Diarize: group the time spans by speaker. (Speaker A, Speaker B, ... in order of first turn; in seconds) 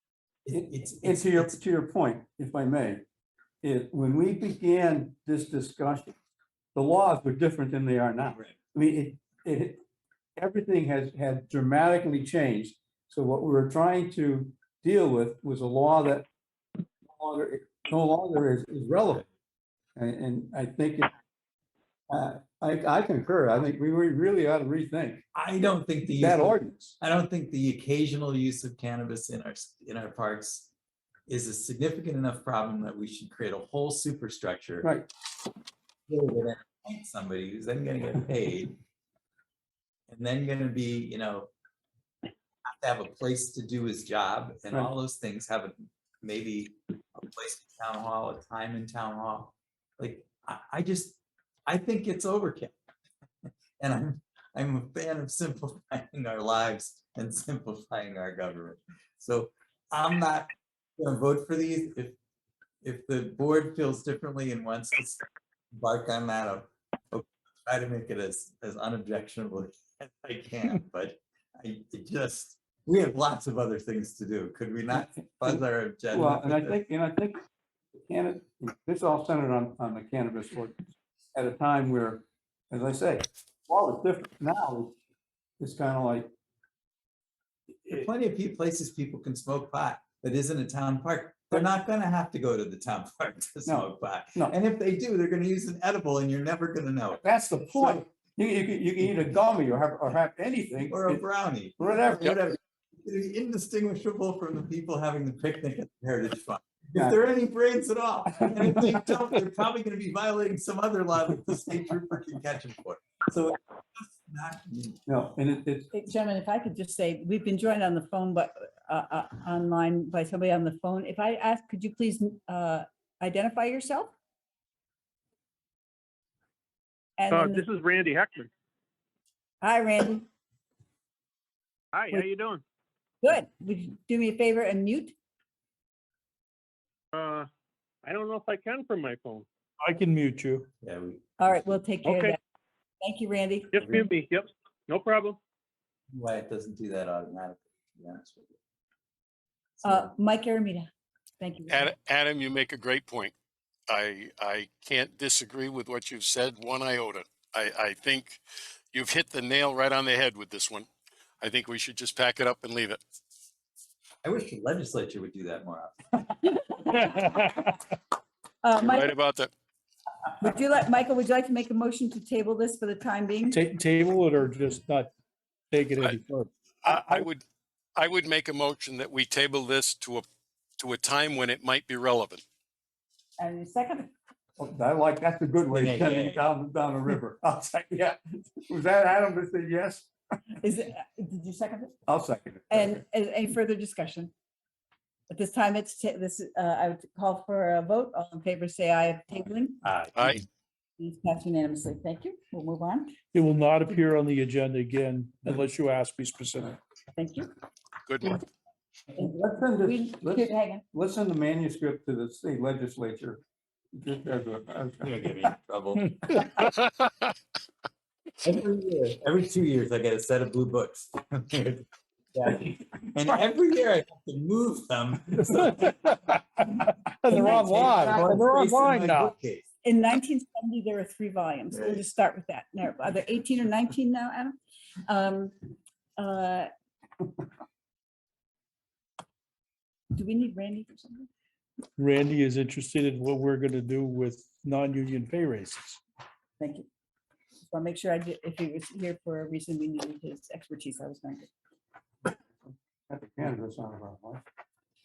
Speaker A: 0.5-1.5, 25.3-30.7, 31.3-34.9, 36.1-38.8, 40.1-41.5, 42.7-52.8, 53.8-62.2, 62.8-76.8, 87.9-98.0, 100.9-115.0, 140.8-141.2, 146.1-148.6, 149.8-150.1, 164.2-166.3, 185.7-186.4, 199.8-200.3, 215.0-216.5, 218.4-225.7, 227.3-229.7, 231.7-232.0
Speaker B: 0.5-3.0, 3.6-6.1, 6.8-9.8, 10.4-16.3, 17.1-19.3, 20.0-21.1, 22.1-25.2, 26.1-26.9, 34.8-35.1, 75.0-77.4, 78.1-84.9, 85.6-86.3, 93.7-94.5, 97.2-101.2, 101.8-102.4, 115.1-115.9, 184.6-190.1, 192.1-193.0, 209.1-215.5, 227.3-228.0, 253.1-254.4
Speaker C: 115.9-124.1, 127.2-127.7, 129.6-130.3, 133.2-135.1, 141.4-142.4, 143.0-144.0, 149.8-150.9, 151.4-151.9, 166.8-167.6, 168.6-169.1, 170.4-173.6, 183.4-184.1, 190.6-192.0, 192.7-194.3, 195.3-199.8, 201.0-203.2, 207.1-207.5, 209.8-210.8, 227.3-228.0, 229.8-235.6, 236.2-236.7, 240.1-241.3, 246.6-246.9, 247.7-251.5
Speaker D: 127.3-128.5, 131.9-132.6, 137.1-137.5, 138.0-139.5, 142.0-142.4, 143.7-145.4
Speaker E: 139.8-140.7, 167.0-167.4, 173.5-175.1, 175.7-177.2, 203.3-206.8, 225.4-229.3, 242.0-246.0
Speaker F: 151.7-153.3, 153.9-158.4, 158.9-160.9, 161.4-163.0, 168.8-169.5, 176.8-177.4, 178.0-180.2, 180.8-182.4, 200.2-200.4, 208.1-208.4